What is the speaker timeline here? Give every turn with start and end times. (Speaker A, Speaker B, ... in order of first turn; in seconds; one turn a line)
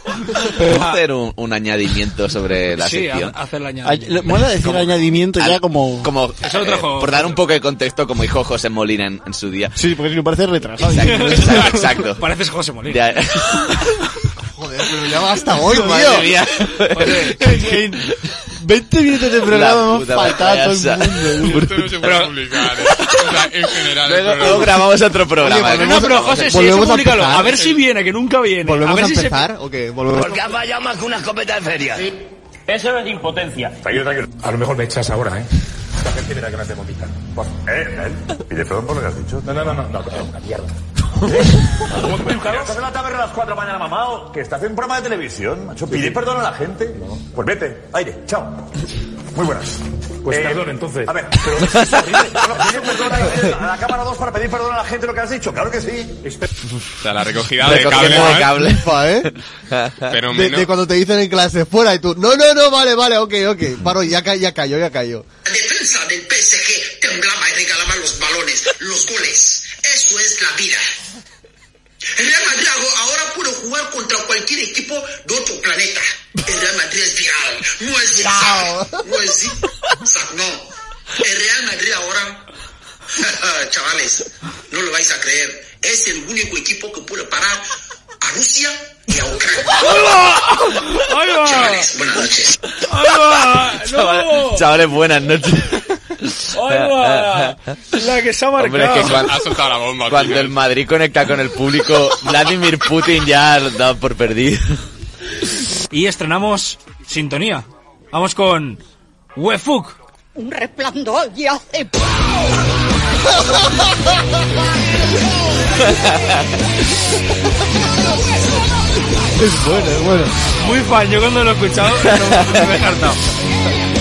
Speaker A: 0.5-1.0
Speaker B: 0.6-3.4
Speaker A: 2.8-4.4
Speaker C: 3.8-6.1
Speaker B: 4.6-9.8
Speaker A: 6.4-7.4
Speaker C: 9.8-12.0
Speaker B: 10.8-12.2
Speaker A: 11.0-13.0
Speaker B: 12.9-13.7
Speaker D: 14.4-16.3
Speaker B: 15.7-17.3
Speaker A: 16.9-17.7
Speaker C: 17.4-21.7
Speaker B: 19.5-22.3
Speaker E: 21.4-24.9
Speaker A: 22.0-22.3
Speaker B: 22.9-23.4
Speaker B: 24.0-26.5
Speaker D: 25.4-27.6
Speaker A: 25.7-29.4
Speaker D: 28.6-30.4
Speaker F: 30.1-32.1
Speaker G: 33.8-34.3
Speaker G: 37.4-40.7
Speaker G: 41.2-48.7
Speaker G: 49.3-56.3
Speaker B: 51.6-52.2
Speaker E: 57.0-58.5
Speaker B: 57.6-58.9
Speaker D: 58.0-59.3
Speaker B: 59.7-60.1
Speaker E: 60.1-60.7
Speaker D: 60.3-65.3
Speaker H: 65.5-70.8
Speaker H: 72.2-80.6
Speaker D: 78.2-79.0
Speaker H: 81.2-82.4
Speaker H: 83.2-87.6
Speaker H: 88.2-90.0
Speaker A: 89.8-91.9
Speaker H: 91.4-92.6
Speaker A: 92.8-94.7
Speaker B: 93.7-97.6
Speaker A: 96.5-99.3
Speaker B: 98.6-104.8
Speaker E: 99.1-100.6
Speaker A: 105.9-108.8
Speaker A: 109.4-110.0
Speaker F: 110.4-112.0
Speaker B: 115.9-116.3
Speaker C: 119.4-120.4
Speaker A: 120.6-123.2
Speaker B: 122.2-122.6